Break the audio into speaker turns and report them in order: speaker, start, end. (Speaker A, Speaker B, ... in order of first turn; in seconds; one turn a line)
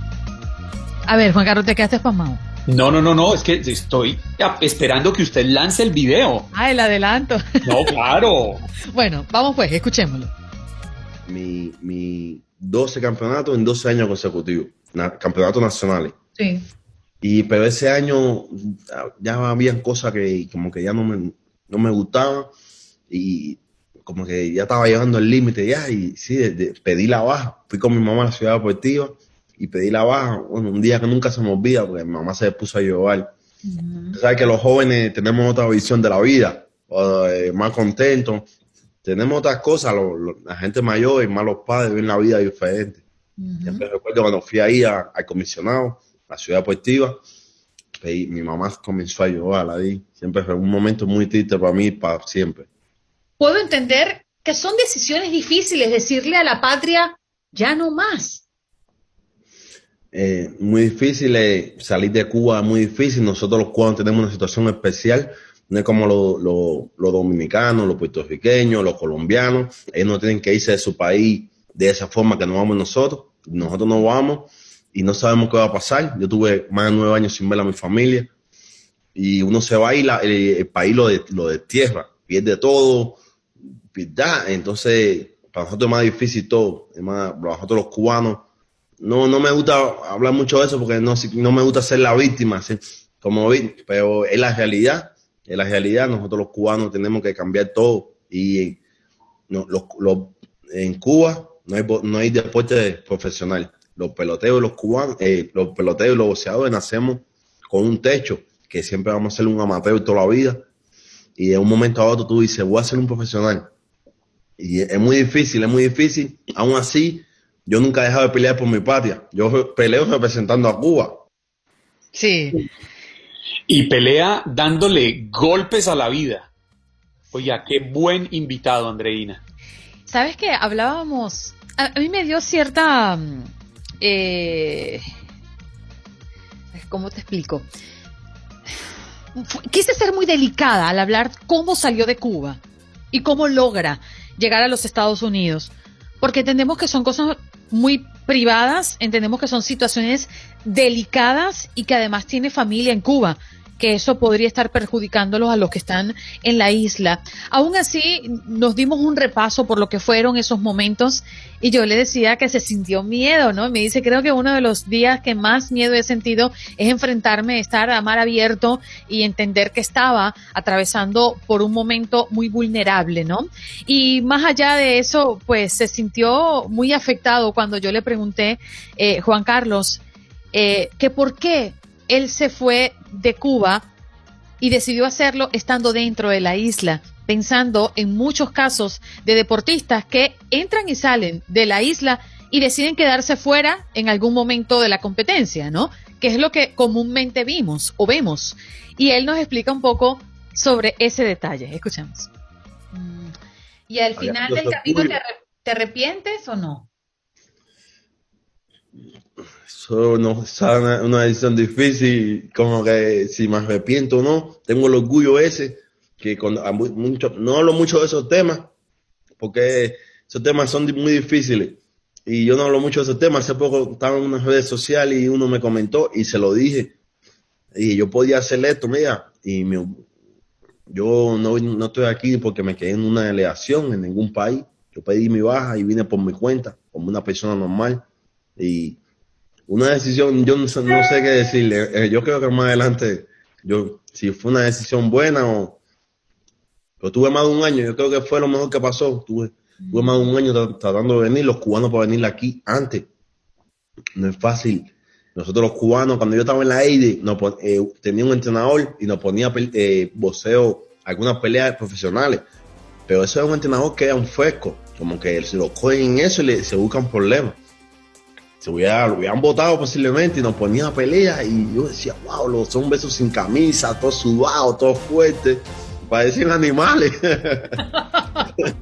Speaker A: 1.1-2.4
Speaker B: 2.7-6.5
Speaker A: 6.5-7.9
Speaker B: 7.7-8.7
Speaker A: 8.9-10.3
Speaker C: 11.3-16.2
Speaker A: 16.4-16.6
Speaker C: 17.2-22.5
Speaker C: 23.1-33.3
Speaker A: 33.7-34.2
Speaker C: 34.1-38.5
Speaker C: 39.0-43.0
Speaker A: 43.4-43.8
Speaker C: 43.6-47.2
Speaker C: 48.0-52.7
Speaker A: 53.4-58.4
Speaker C: 60.1-78.3
Speaker C: 79.2-83.2
Speaker C: 83.9-88.5
Speaker C: 89.0-98.8
Speaker C: 99.5-110.7
Speaker C: 111.4-113.7
Speaker C: 114.6-121.2
Speaker A: 122.2-122.6
Speaker B: 123.7-126.5
Speaker B: 127.3-129.4
Speaker A: 130.1-133.5
Speaker A: 134.0-135.0
Speaker A: 136.7-137.7
Speaker A: 139.4-142.6
Speaker A: 143.1-145.7
Speaker A: 146.2-180.0
Speaker A: 180.5-183.9
Speaker A: 184.6-202.3
Speaker A: 202.9-203.3
Speaker A: 203.9-206.9
Speaker C: 204.2-205.2
Speaker C: 209.6-218.7
Speaker C: 219.4-227.0
Speaker C: 227.8-230.1
Speaker C: 230.9-238.1
Speaker C: 238.6-239.0
Speaker C: 239.7-245.8
Speaker C: 247.0-253.1
Speaker C: 254.2-262.5
Speaker C: 263.1-267.6
Speaker C: 268.6-277.8
Speaker A: 278.1-278.4